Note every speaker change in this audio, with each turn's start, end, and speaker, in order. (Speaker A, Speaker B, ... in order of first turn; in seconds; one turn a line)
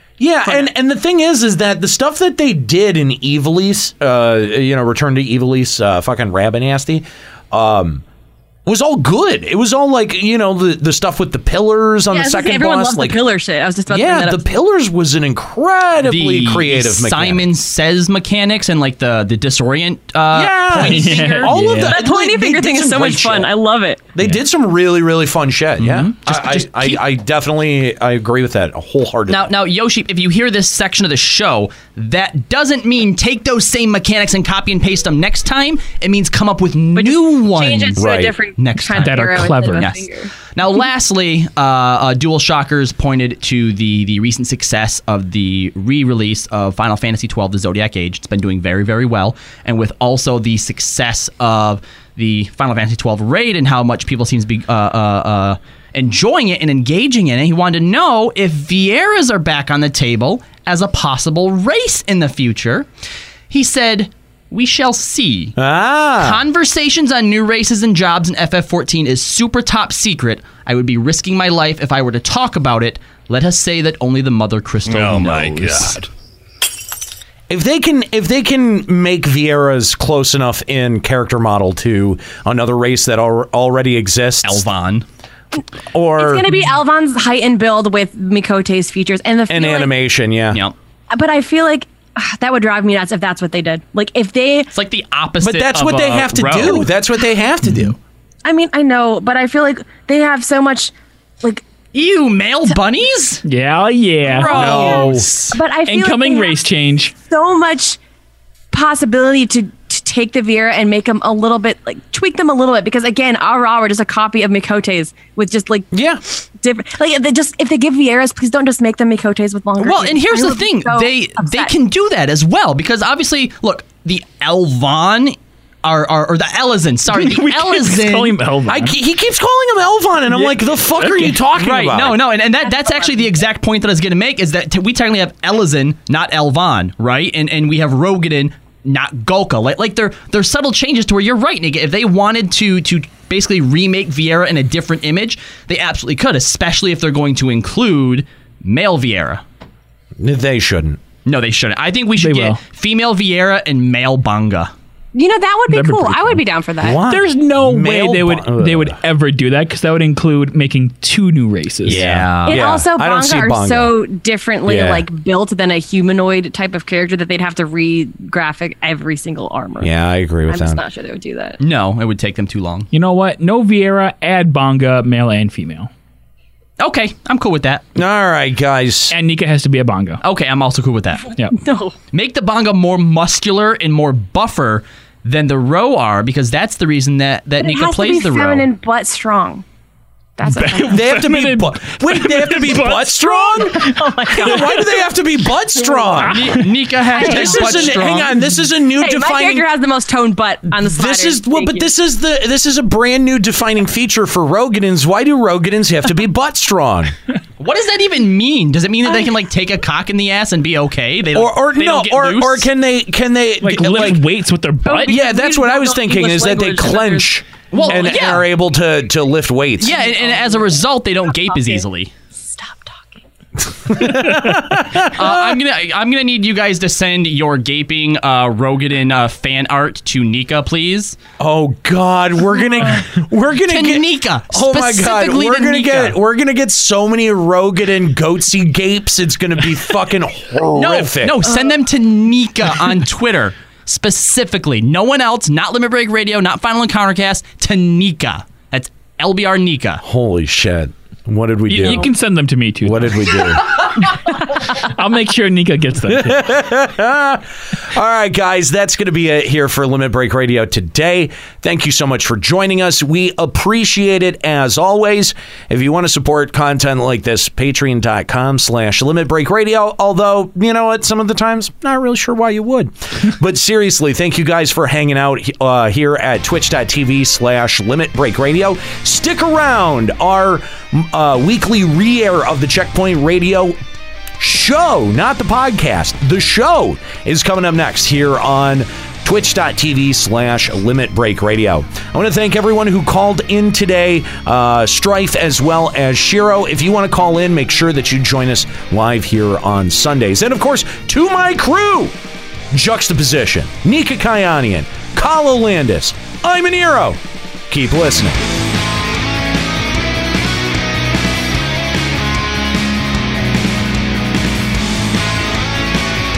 Speaker A: 0.2-8.0
Speaker A: 8.7-13.2
Speaker B: 12.1-14.4
Speaker A: 13.9-17.5
Speaker C: 16.0-21.6
Speaker A: 20.3-23.5
Speaker D: 20.8-22.0
Speaker B: 21.9-24.0
Speaker A: 24.1-29.5
Speaker C: 25.8-27.0
Speaker C: 29.3-62.9
Speaker B: 36.9-40.3
Speaker A: 38.0-38.4
Speaker D: 39.0-39.9
Speaker C: 63.5-65.6
Speaker A: 65.6-66.4
Speaker C: 66.2-76.1
Speaker A: 77.5-84.6
Speaker C: 84.4-85.0
Speaker A: 85.9-86.5
Speaker B: 86.2-89.9
Speaker A: 89.5-90.6
Speaker B: 91.1-94.7
Speaker C: 94.7-96.9
Speaker A: 95.4-98.0
Speaker B: 98.5-101.7
Speaker C: 101.9-103.4
Speaker D: 103.5-105.2
Speaker C: 104.2-105.6
Speaker B: 104.5-106.6
Speaker A: 104.5-105.3
Speaker D: 105.9-107.1
Speaker B: 107.2-108.0
Speaker B: 108.7-115.9
Speaker A: 115.9-116.2
Speaker B: 116.6-121.7
Speaker C: 119.8-128.3
Speaker D: 127.1-128.9
Speaker A: 128.7-132.2
Speaker D: 130.3-131.4
Speaker C: 131.5-149.4
Speaker B: 132.6-133.3
Speaker A: 150.2-151.0
Speaker C: 151.2-154.7
Speaker D: 152.2-152.6
Speaker B: 155.2-157.0
Speaker D: 155.7-156.4
Speaker A: 156.8-159.0
Speaker D: 157.1-162.1
Speaker C: 161.9-162.6
Speaker A: 161.9-163.9
Speaker B: 162.5-169.9
Speaker A: 164.7-165.1
Speaker A: 169.8-170.8
Speaker B: 170.5-171.6
Speaker C: 171.6-172.9
Speaker D: 172.9-175.9
Speaker C: 176.8-177.8
Speaker A: 177.9-179.1
Speaker D: 179.1-180.2
Speaker C: 180.2-181.3
Speaker B: 181.5-181.9
Speaker C: 182.1-188.7
Speaker B: 187.6-189.7
Speaker B: 190.4-191.0
Speaker D: 190.5-194.7
Speaker A: 190.8-199.7
Speaker B: 193.2-195.2
Speaker B: 195.8-196.2
Speaker D: 196.1-196.8
Speaker C: 196.2-198.3
Speaker B: 197.1-198.2
Speaker B: 198.9-201.9
Speaker A: 200.7-207.1
Speaker C: 207.6-212.7
Speaker A: 211.3-214.3
Speaker D: 213.6-215.2
Speaker B: 214.9-218.2
Speaker A: 215.1-220.0
Speaker C: 217.7-218.5
Speaker C: 219.8-222.1
Speaker B: 219.8-221.8
Speaker B: 222.4-223.2
Speaker A: 223.9-225.6
Speaker C: 225.0-231.2
Speaker A: 231.4-241.6
Speaker C: 233.7-236.2
Speaker C: 240.7-250.0
Speaker A: 250.0-252.1
Speaker D: 251.7-256.5
Speaker A: 252.8-254.0
Speaker A: 256.1-283.8
Speaker A: 284.4-302.1
Speaker A: 302.7-308.4